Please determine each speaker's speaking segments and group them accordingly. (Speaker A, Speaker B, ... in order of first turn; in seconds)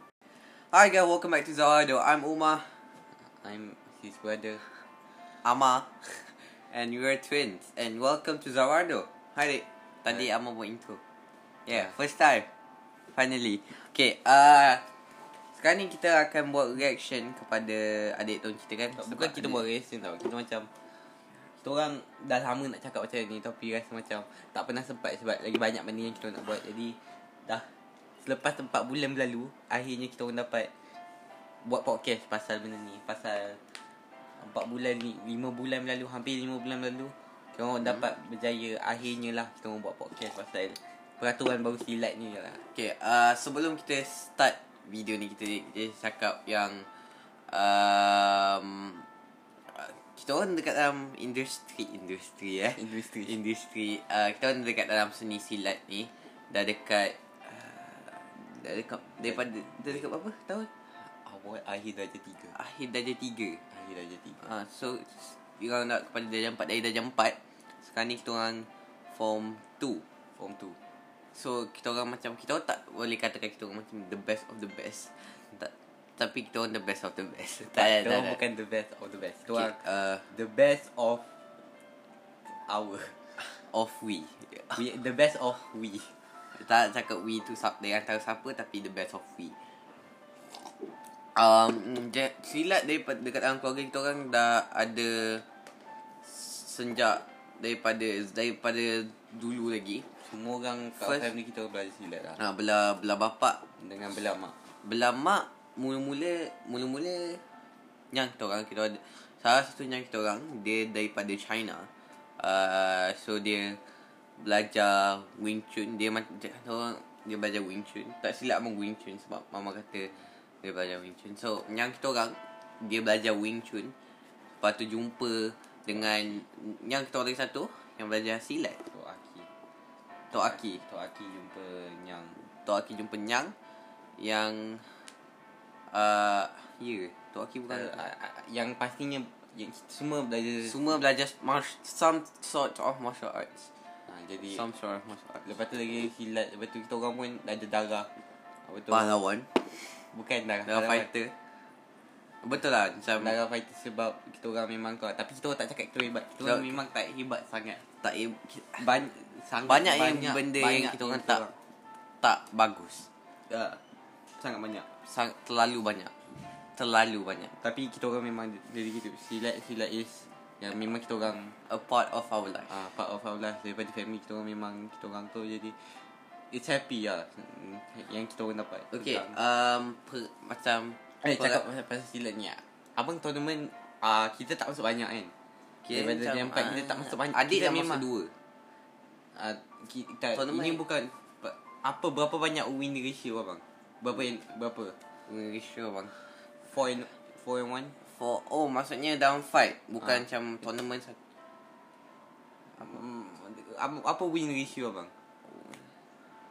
Speaker A: 0.5-2.8, 5.4-11.0, 11.7-12.5, 13.1-14.8, 15.6-19.6, 42.7-46.9, 47.5-49.1, 49.7-60.7, 62.5-63.6, 64.4-70.0, 71.3-78.4, 79.5-80.2, 83.4-84.8, 86.5-89.6, 91.3-95.4, 96.2-100.0, 101.0-101.3, 102.4-103.6, 104.8-107.4, 108.1-111.9, 112.4-113.8, 114.4-123.9, 124.6-128.8, 130.3-130.8, 132.7-133.5, 134.2-135.1, 135.9-138.0, 140.6-143.7, 144.5-145.5, 148.9-150.1, 150.7-151.3, 152.4-153.3, 156.4-156.8, 158.0-158.9, 159.7-161.4, 162.2-163.1, 165.1-167.5, 171.7-172.7, 178.9-181.6, 185.8-188.3, 190.3-190.8, 195.3-196.2, 198.0-201.2
Speaker B: 3.2-4.8, 18.9-20.7, 21.6-30.7, 31.6-33.6, 34.4-42.6, 52.8-53.4, 59.2-60.1, 61.0-62.5, 63.7-64.5, 70.4-70.8, 77.7-81.3, 82.5-83.4, 84.8-86.1, 100.2-102.4, 103.8-104.6, 128.8-129.5, 130.3-132.4, 137.7-140.8, 144.1-144.6, 145.4-148.1, 148.6-149.2, 150.1-151.1, 153.1-157.8, 158.8-161.5, 163.5-163.8, 164.4-164.9, 167.6-171.6, 172.7-179.4, 181.2-185.3, 185.9-188.0, 189.4-195.0, 196.7-197.9, 202.8-205.8